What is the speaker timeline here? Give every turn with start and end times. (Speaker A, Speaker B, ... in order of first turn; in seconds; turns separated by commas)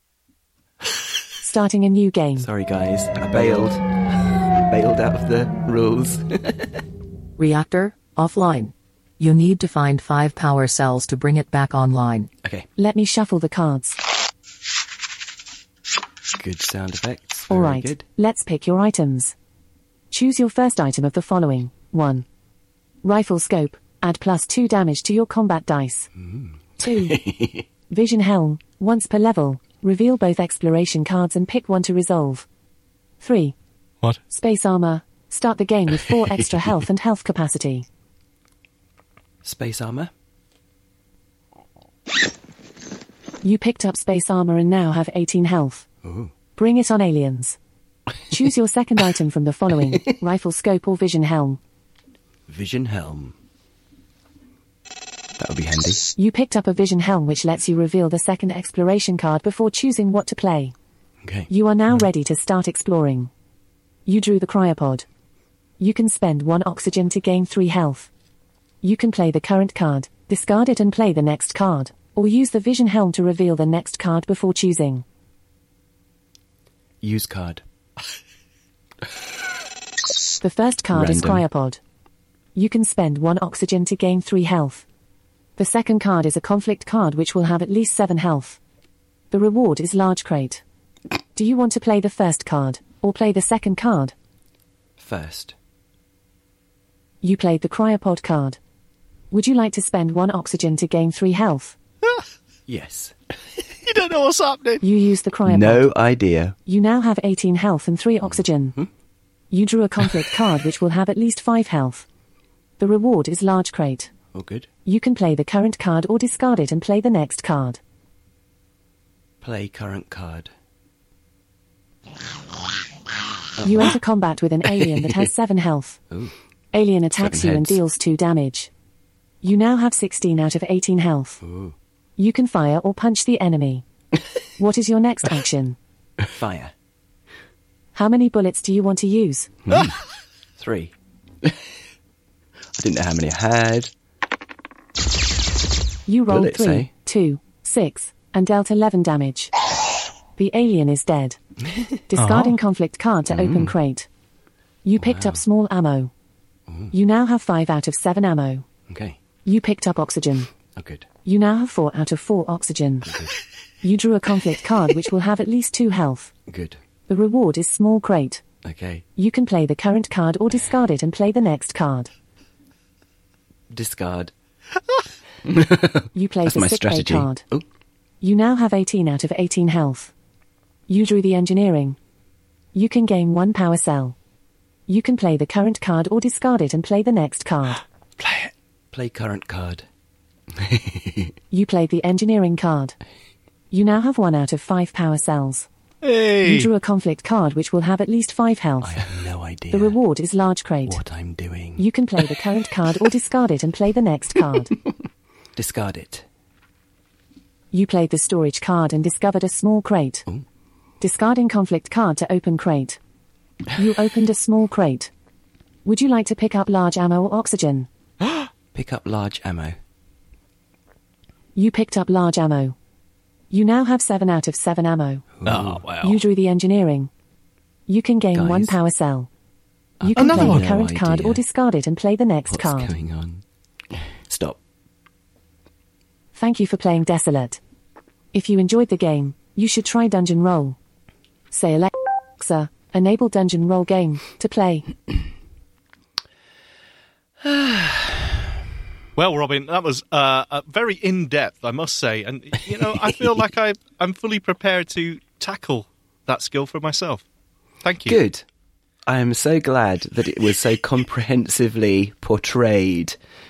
Speaker A: 1.4-2.5, Speaker B: 2.4-3.9, Speaker B: 4.5-6.8, Speaker C: 7.4-12.3, Speaker A: 12.8-14.0, Speaker B: 16.4-18.0, Speaker A: 17.5-19.3, Speaker A: 20.1-22.2, Speaker A: 23.0-26.1, Speaker B: 26.1-27.6, Speaker A: 26.8-27.2, Speaker A: 27.9-32.5, Speaker A: 33.2-33.5, Speaker A: 34.3-37.9, Speaker B: 36.1-36.8, Speaker B: 39.4-40.1, Speaker A: 43.4-45.9, Speaker B: 46.0-46.3, Speaker A: 46.5-47.6, Speaker A: 48.3-51.6, Speaker B: 52.5-53.4, Speaker B: 55.4-56.1, Speaker A: 56.1-60.7, Speaker B: 61.2-61.5, Speaker A: 61.5-63.3, Speaker A: 64.0-65.0, Speaker A: 65.8-68.1, Speaker A: 68.8-75.0, Speaker B: 77.0-77.6, Speaker A: 80.4-81.8, Speaker B: 80.9-81.4, Speaker A: 82.5-84.8, Speaker A: 85.6-88.6, Speaker A: 89.3-90.6, Speaker A: 91.3-94.1, Speaker B: 95.0-95.5, Speaker A: 97.2-98.6, Speaker A: 99.3-101.8, Speaker B: 102.7-103.2, Speaker D: 103.8-104.8, Speaker A: 104.8-105.9, Speaker B: 105.5-106.5, Speaker A: 106.7-108.8, Speaker B: 108.2-108.9, Speaker A: 109.5-112.0, Speaker A: 112.8-114.1, Speaker B: 114.3-114.7, Speaker A: 114.8-117.8, Speaker B: 119.4-120.5, Speaker B: 123.6-123.9, Speaker A: 123.6-126.0, Speaker A: 126.7-128.7, Speaker B: 127.2-127.8, Speaker A: 129.4-131.4, Speaker B: 131.4-131.7, Speaker A: 132.2-133.8, Speaker A: 134.6-135.8, Speaker B: 136.2-136.7, Speaker A: 137.9-139.5, Speaker B: 139.6-139.9, Speaker B: 140.6-140.9, Speaker B: 142.8-143.9, Speaker A: 146.1-149.5, Speaker B: 146.3-146.9, Speaker A: 150.4-151.4, Speaker B: 151.7-151.9, Speaker A: 152.1-154.1, Speaker D: 152.2-152.6, Speaker B: 153.3-153.7, Speaker A: 154.8-156.1, Speaker B: 155.0-155.4, Speaker A: 156.9-158.7, Speaker B: 158.9-159.2, Speaker A: 159.4-160.5, Speaker B: 160.7-161.1, Speaker A: 161.2-163.1, Speaker B: 163.0-163.3, Speaker A: 163.8-166.3, Speaker B: 166.5-166.8, Speaker A: 167.1-168.4, Speaker B: 168.6-169.0, Speaker A: 169.2-172.1, Speaker B: 173.7-174.3, Speaker B: 175.4-177.7, Speaker A: 176.1-177.4, Speaker A: 178.2-180.1, Speaker A: 180.9-182.0, Speaker A: 182.7-184.2, Speaker A: 184.9-187.8, Speaker B: 188.9-189.8, Speaker B: 190.5-191.3, Speaker A: 191.5-193.0, Speaker A: 193.7-195.7, Speaker D: 196.0-196.7, Speaker A: 196.4-199.0, Speaker B: 198.8-200.0, Speaker A: 199.7-201.0, Speaker B: 200.8-201.8, Speaker A: 201.8-204.7, Speaker B: 205.6-206.2, Speaker A: 207.7-210.2, Speaker A: 211.0-213.0, Speaker A: 213.8-215.1, Speaker A: 215.8-217.9, Speaker B: 218.7-219.8, Speaker A: 221.6-222.8, Speaker A: 223.5-225.3, Speaker B: 225.3-225.8, Speaker D: 225.4-226.2, Speaker A: 226.0-227.1, Speaker A: 227.9-229.3, Speaker B: 228.3-228.8, Speaker B: 230.0-231.4, Speaker A: 230.0-232.9, Speaker D: 230.2-230.6, Speaker B: 232.5-234.6, Speaker A: 236.3-237.6, Speaker A: 238.3-240.8, Speaker A: 241.5-244.9, Speaker B: 247.4-248.4, Speaker D: 249.2-257.2, Speaker D: 257.8-258.2, Speaker B: 258.1-258.4, Speaker B: 259.1-263.2